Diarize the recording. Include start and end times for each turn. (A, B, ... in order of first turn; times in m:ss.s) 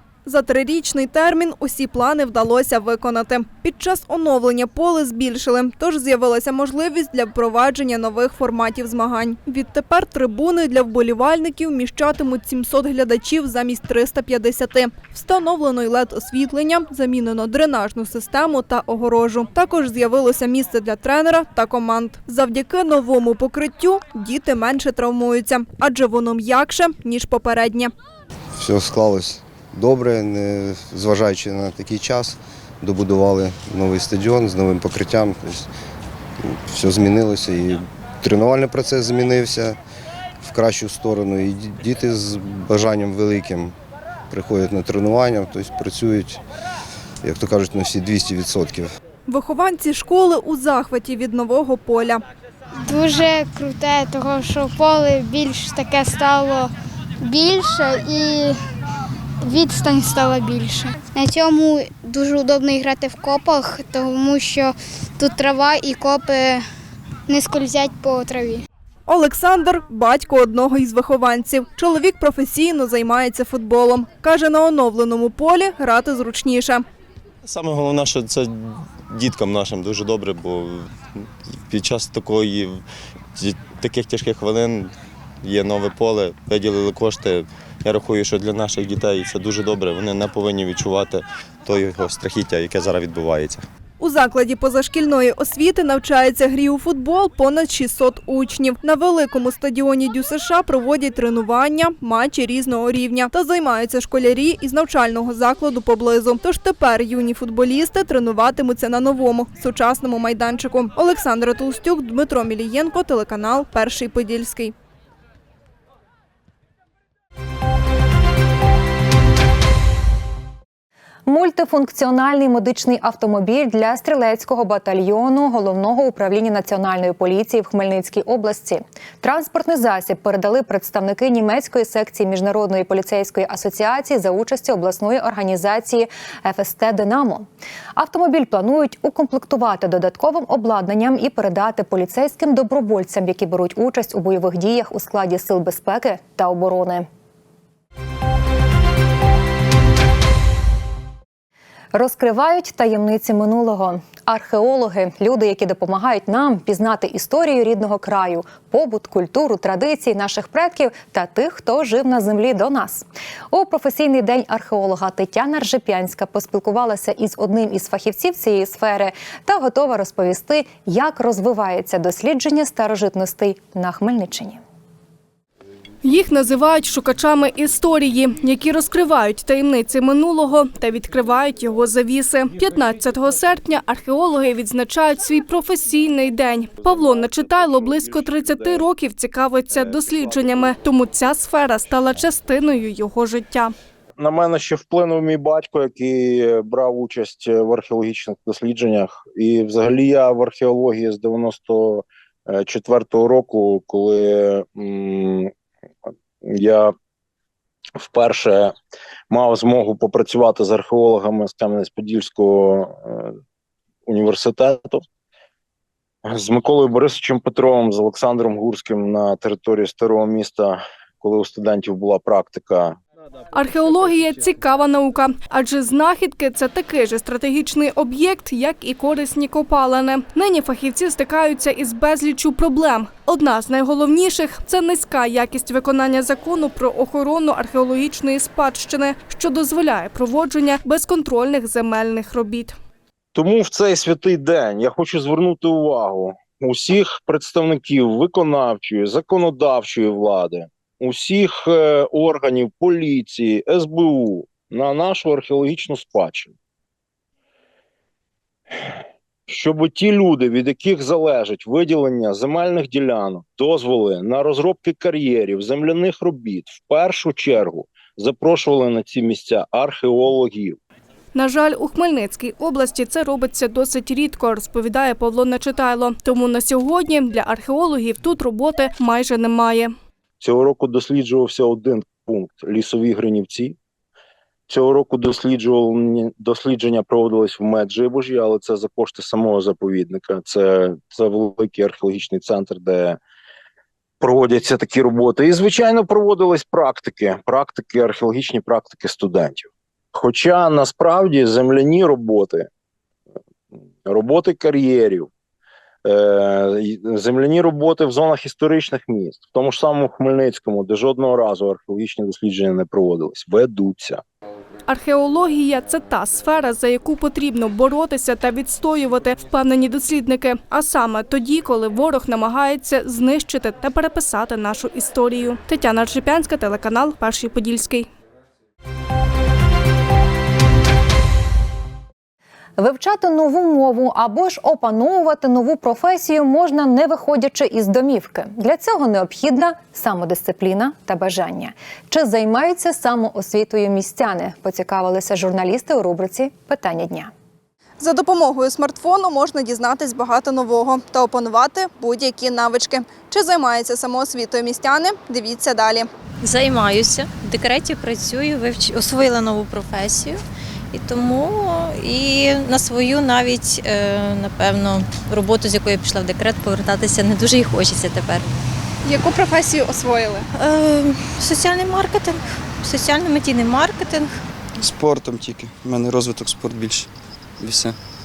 0:00.2-0:27.9 A
0:28.6-0:35.7 B
0:36.4-0:39.8 B
0:40.4-0:43.7 B
0:44.3-0:46.4 B
0:47.2-0:48.9 B
0:49.3-0:52.2 A
0:52.8-0:58.5 C
0:59.4-1:06.6 C
1:07.3-1:08.6 C
1:09.1-1:16.8 A
1:17.5-1:18.5 D
1:19.1-1:20.8 D
1:21.7-1:22.8 D
1:23.4-1:24.9 D
1:25.4-1:33.6 D
1:34.0-1:54.7 A
2:01.3-2:27.0 E
2:31.9-2:54.6 E
2:56.0-3:13.7 F
3:06.8-3:08.8 G
3:09.7-3:10.7 G
3:14.2-3:25.5 G
3:26.4-3:26.9 G
3:28.0-3:28.7 G
3:29.3-3:33.3 G
3:34.1-3:35.0 G
3:36.2-3:43.0 G
3:43.5-4:02.8 F
4:03.3-4:16.5 G
4:19.5-4:30.8 G
4:31.3-4:39.9 F
4:40.4-4:43.8 G
4:44.7-4:53.2 G
4:54.2-5:02.7 G
5:04.0-5:05.3 G
5:06.0-5:14.2 G
5:14.9-5:28.1 F
5:32.8-5:47.3 E
5:48.0-5:56.1 A
5:56.4-6:00.4 H
6:00.9-6:08.4 H
6:09.0-6:10.4 A
6:10.6-6:14.3 H
6:14.8-6:17.0 I
6:17.6-6:17.9 I